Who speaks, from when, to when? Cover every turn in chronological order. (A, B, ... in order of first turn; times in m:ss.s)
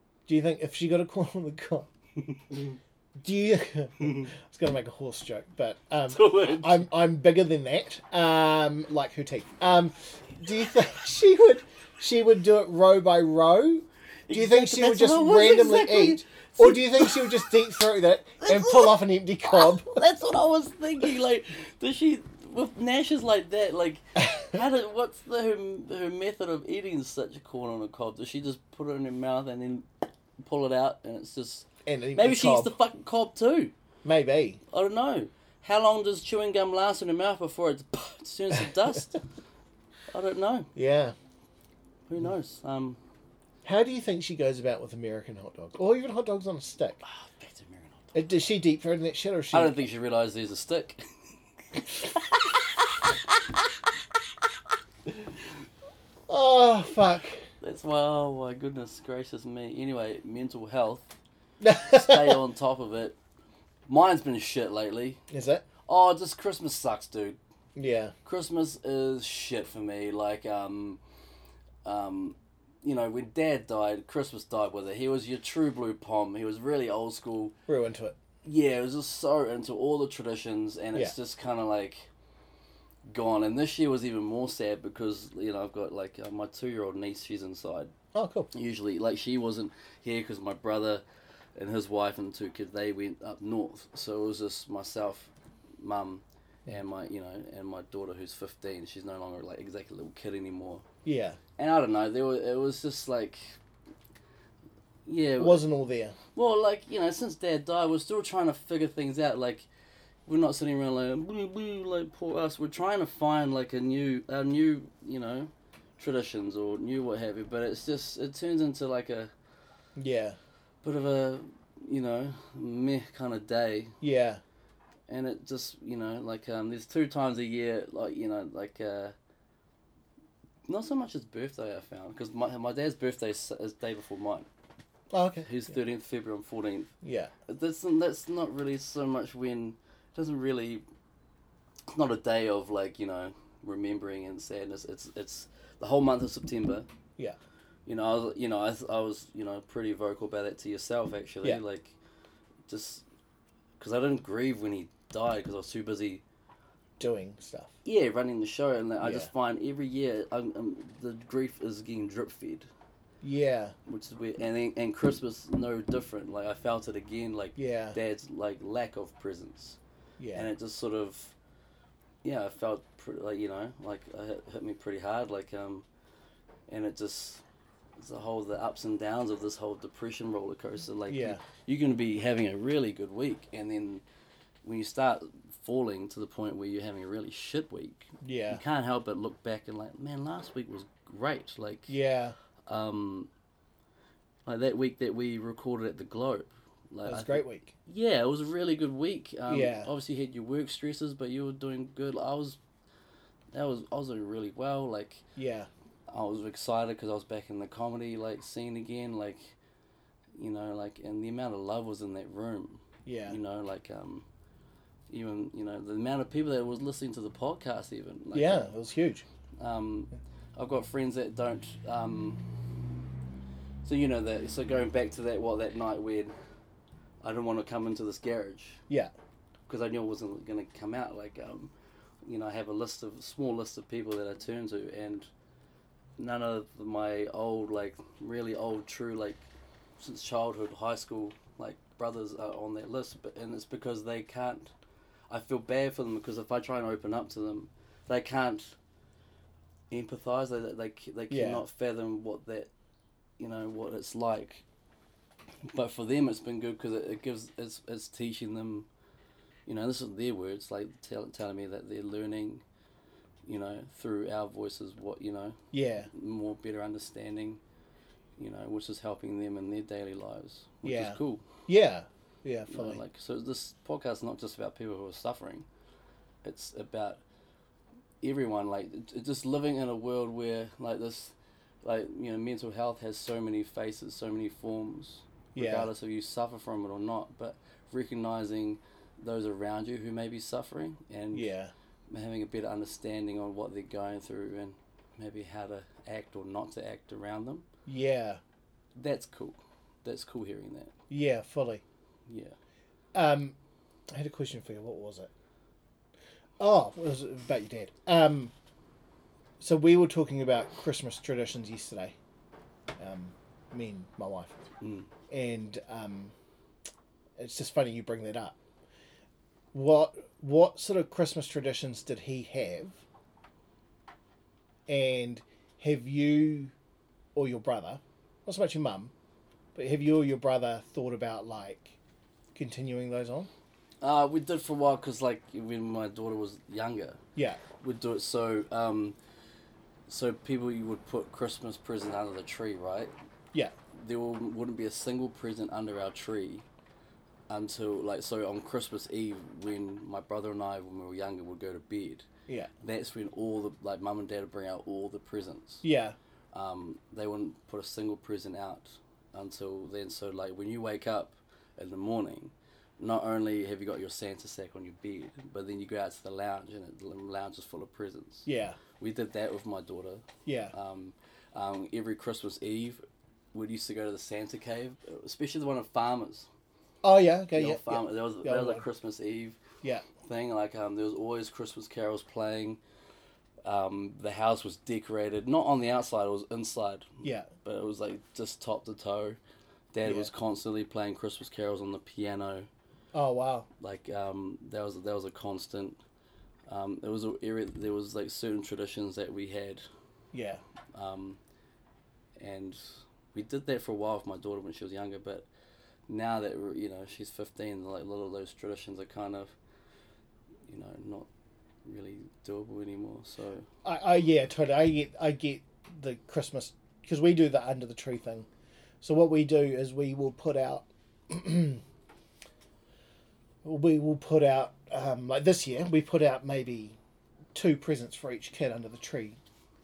0:00.3-0:01.9 A
0:02.2-0:02.7 B
0:03.2-0:20.0 A
0:04.0-0:04.3 B
0:06.1-0:06.8 B
0:14.3-0:17.6 B
0:18.4-0:29.9 B
0:30.4-0:33.7 B
0:31.8-0:32.7 A
0:34.0-0:34.6 A
0:34.7-0:39.2 B
0:40.1-0:40.7 B
0:40.7-0:41.2 A
0:42.1-0:43.0 B
0:43.6-0:47.0 A
0:47.0-0:48.2 B
0:48.1-0:49.8 A
0:49.5-0:51.0 B
0:51.7-0:53.2 B
0:55.1-0:55.5 B
0:56.3-0:57.4 A
0:57.6-1:01.1 B
1:01.6-1:02.4 A
1:01.7-1:03.2 B
1:03.9-1:05.2 B
1:05.3-1:05.6 A
1:05.8-1:07.4 B
1:07.8-1:08.1 A
1:08.2-1:11.0 B
1:11.8-1:17.5 B
1:17.7-1:18.2 A
1:18.4-1:22.1 B
1:23.0-1:27.9 B
1:28.1-1:28.5 A
1:28.5-1:31.0 B
1:31.6-1:40.8 B
1:41.0-1:41.4 A
1:41.6-1:43.6 B
1:45.0-1:45.6 B
1:45.4-1:46.2 A
1:46.3-1:49.7 B
1:50.2-1:59.3 B
2:00.0-2:00.4 A
2:00.8-2:04.0 B
2:04.0-2:04.4 A
2:05.1-2:09.1 B
2:10.7-2:14.5 B
2:15.1-2:15.5 A
2:15.4-2:16.9 B
2:17.0-2:17.3 A
2:17.4-2:20.8 B
2:21.9-2:26.9 B
2:27.8-2:32.0 B
2:32.7-2:33.0 B
2:33.8-2:36.2 B
2:37.0-2:37.7 A
2:37.8-2:42.7 B
2:39.0-2:39.3 A
2:43.2-2:43.7 A
2:43.9-2:49.8 B
2:47.6-2:48.0 A
2:50.2-2:50.5 A
2:50.3-2:51.3 B
2:52.2-2:55.8 B
2:56.7-2:57.4 B
2:58.0-3:04.0 B
3:01.1-3:01.4 A
3:04.6-3:12.0 B
3:08.2-3:08.6 A
3:11.9-3:12.4 A
3:12.7-3:13.3 B
3:14.4-3:22.6 B
3:17.0-3:17.7 A
3:19.5-3:19.9 A
3:23.5-3:25.2 B
3:25.4-3:25.7 A
3:26.1-3:29.5 B
3:30.4-3:34.2 B
3:33.0-3:33.4 A
3:35.1-3:38.7 B
3:38.3-3:39.2 A
3:39.6-3:42.4 B
3:43.8-3:46.3 B
3:47.2-3:48.8 B
3:49.7-3:51.7 B
3:52.2-3:55.3 B
3:56.2-4:04.7 B
4:05.3-4:08.8 B
4:09.9-4:12.7 B
4:11.3-4:11.6 A
4:13.4-4:14.6 B
4:15.7-4:18.9 B
4:19.6-4:22.6 B
4:23.4-4:27.6 B
4:25.7-4:26.1 A
4:28.4-4:31.4 B
4:30.8-4:33.0 A
4:32.7-4:35.7 B
4:36.4-4:37.2 B
4:38.2-4:51.5 B
4:45.5-4:45.9 A
4:51.3-4:51.7 A
4:52.1-4:57.7 B
4:57.9-4:58.4 A
4:59.0-5:00.9 B
5:01.1-5:01.8 A
5:02.3-5:02.6 B
5:03.1-5:03.5 A
5:04.1-5:05.3 A
5:06.6-5:08.5 A
5:09.6-5:12.2 A
5:13.0-5:14.6 A
5:14.8-5:15.1 B
5:15.3-5:16.3 A
5:17.4-5:18.6 A
5:19.7-5:23.0 A
5:24.9-5:26.7 A
5:27.3-5:29.1 A
5:29.7-5:32.0 A
5:32.5-5:33.5 A
5:34.0-5:37.2 B
5:37.8-5:39.2 B
5:40.1-5:43.1 B
5:43.9-5:46.6 B
5:47.5-5:52.2 B
5:52.8-5:55.8 B
5:55.8-5:56.2 A
5:56.5-6:13.0 B
6:08.4-6:08.8 A
6:10.4-6:10.7 A
6:13.5-6:16.5 B
6:17.0-6:18.8 A
6:17.5-6:19.6 B
6:20.2-6:22.8 B
6:23.6-6:29.4 B
6:27.2-6:27.5 A
6:29.9-6:32.7 B
6:30.0-6:30.3 A
6:33.1-6:33.7 A
6:33.8-6:36.0 B
6:36.7-6:39.8 B
6:40.3-6:40.6 A
6:40.9-6:41.4 B
6:42.4-6:42.8 B
6:43.3-6:45.4 B
6:46.1-6:49.5 B
6:50.7-6:51.3 B
6:51.8-6:53.6 B
6:53.8-6:58.5 A
6:59.0-7:01.8 A
7:03.6-7:07.0 A
7:07.5-7:09.4 A